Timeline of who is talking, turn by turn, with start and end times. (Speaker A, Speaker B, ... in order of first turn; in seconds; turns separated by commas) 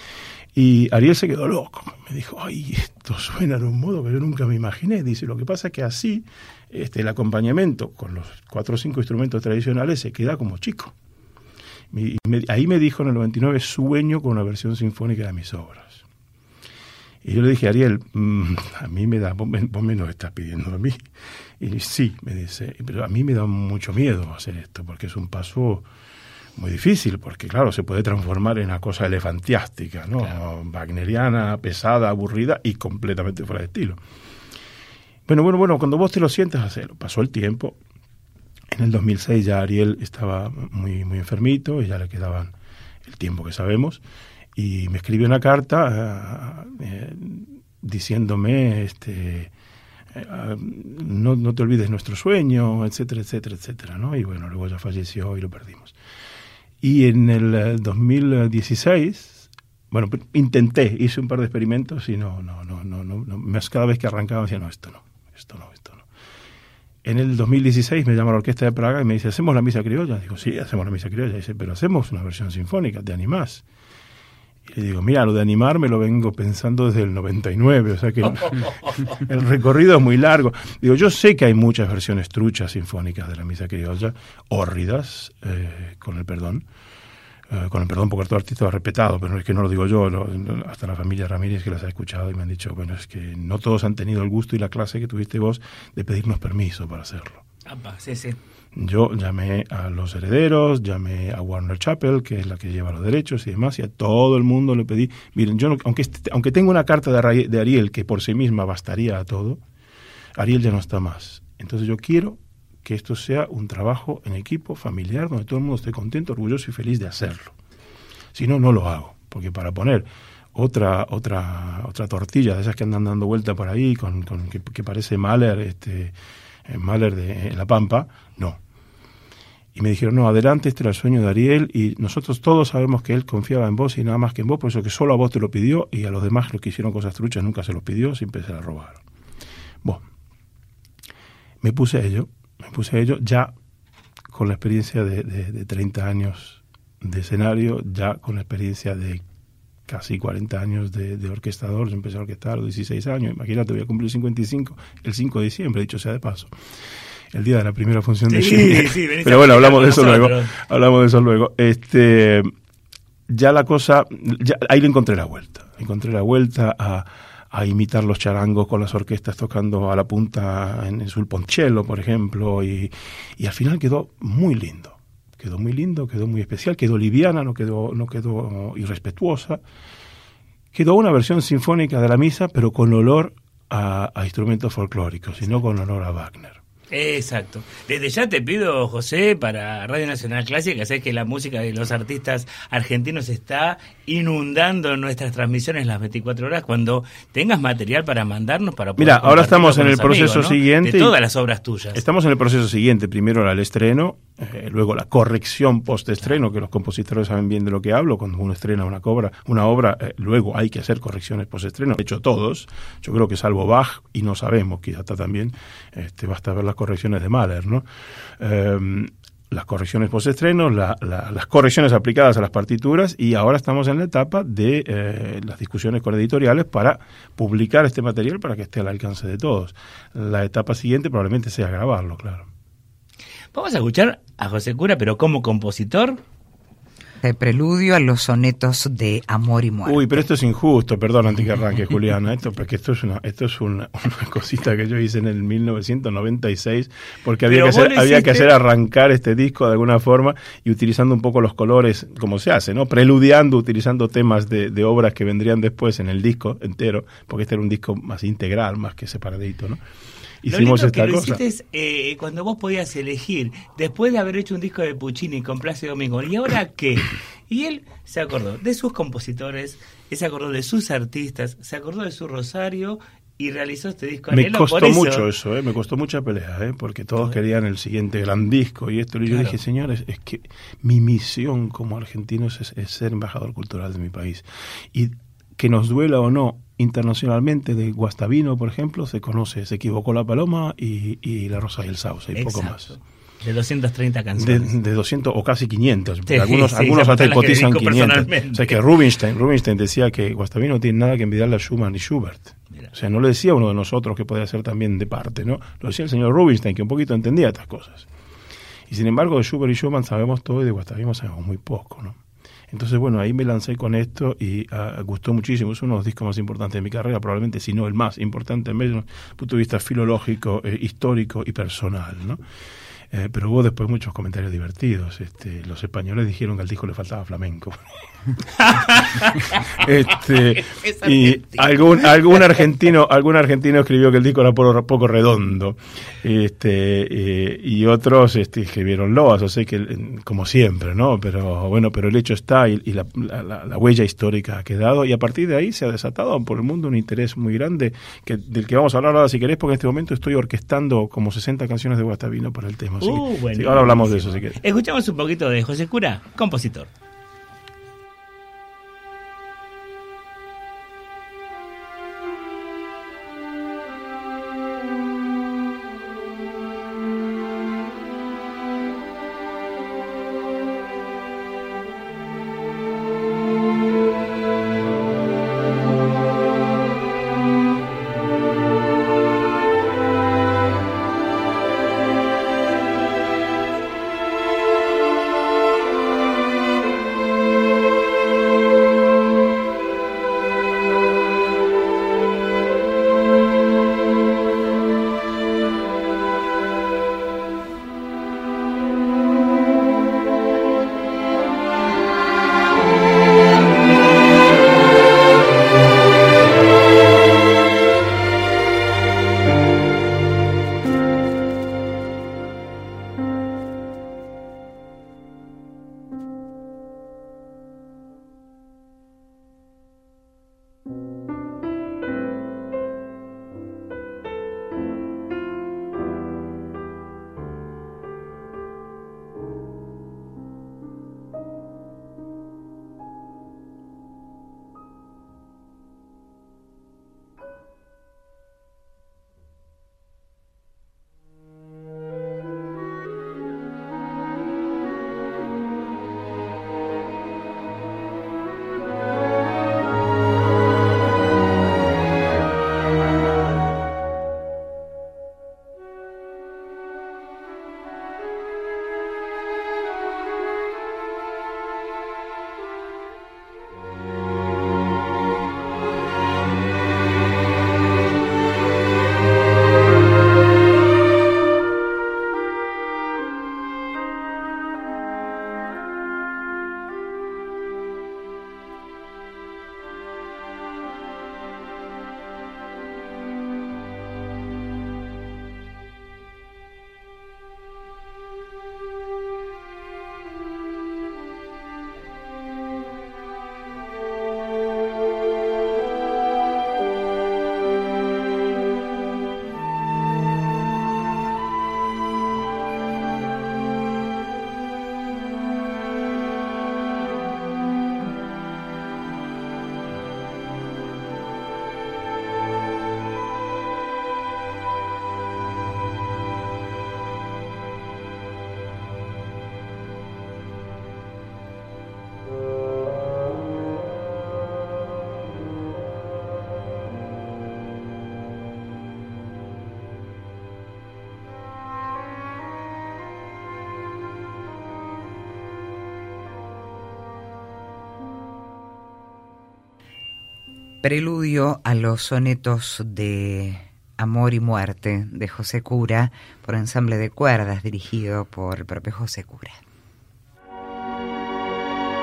Speaker A: 0.5-10.9, Speaker A: 11.9-16.0, Speaker A: 17.2-21.0, Speaker A: 21.6-25.9, Speaker A: 26.6-34.0, Speaker A: 35.3-37.8, Speaker A: 38.7-42.5, Speaker A: 43.0-44.0, Speaker A: 44.5-49.5, Speaker A: 50.1-56.0, Speaker A: 56.8-66.1, Speaker A: 67.0-73.6, Speaker A: 74.7-86.7, Speaker B: 78.5-79.1, Speaker A: 87.5-97.4, Speaker B: 97.7-98.4, Speaker A: 98.7-109.6, Speaker A: 110.3-117.5, Speaker A: 118.3-126.1, Speaker A: 126.7-128.6, Speaker A: 129.7-139.0, Speaker A: 141.6-143.5, Speaker A: 144.3-149.2, Speaker A: 149.8-156.5, Speaker A: 157.3-162.5, Speaker B: 158.3-160.5, Speaker A: 163.3-179.6, Speaker A: 180.7-186.6, Speaker B: 186.9-202.0, Speaker A: 199.0-201.2, Speaker A: 201.9-217.8, Speaker A: 218.4-232.5, Speaker B: 233.5-236.2, Speaker C: 237.2-240.2, Speaker A: 239.8-259.8, Speaker B: 247.5-248.5, Speaker A: 260.4-261.4, Speaker B: 260.5-275.2, Speaker A: 274.3-292.9, Speaker B: 279.2-279.6, Speaker B: 292.4-294.7, Speaker A: 294.4-308.1, Speaker B: 296.3-298.8, Speaker A: 308.9-322.4, Speaker A: 323.1-327.8, Speaker B: 328.6-329.8, Speaker A: 328.8-354.6, Speaker B: 330.6-331.6, Speaker B: 353.0-356.9, Speaker C: 540.8-549.6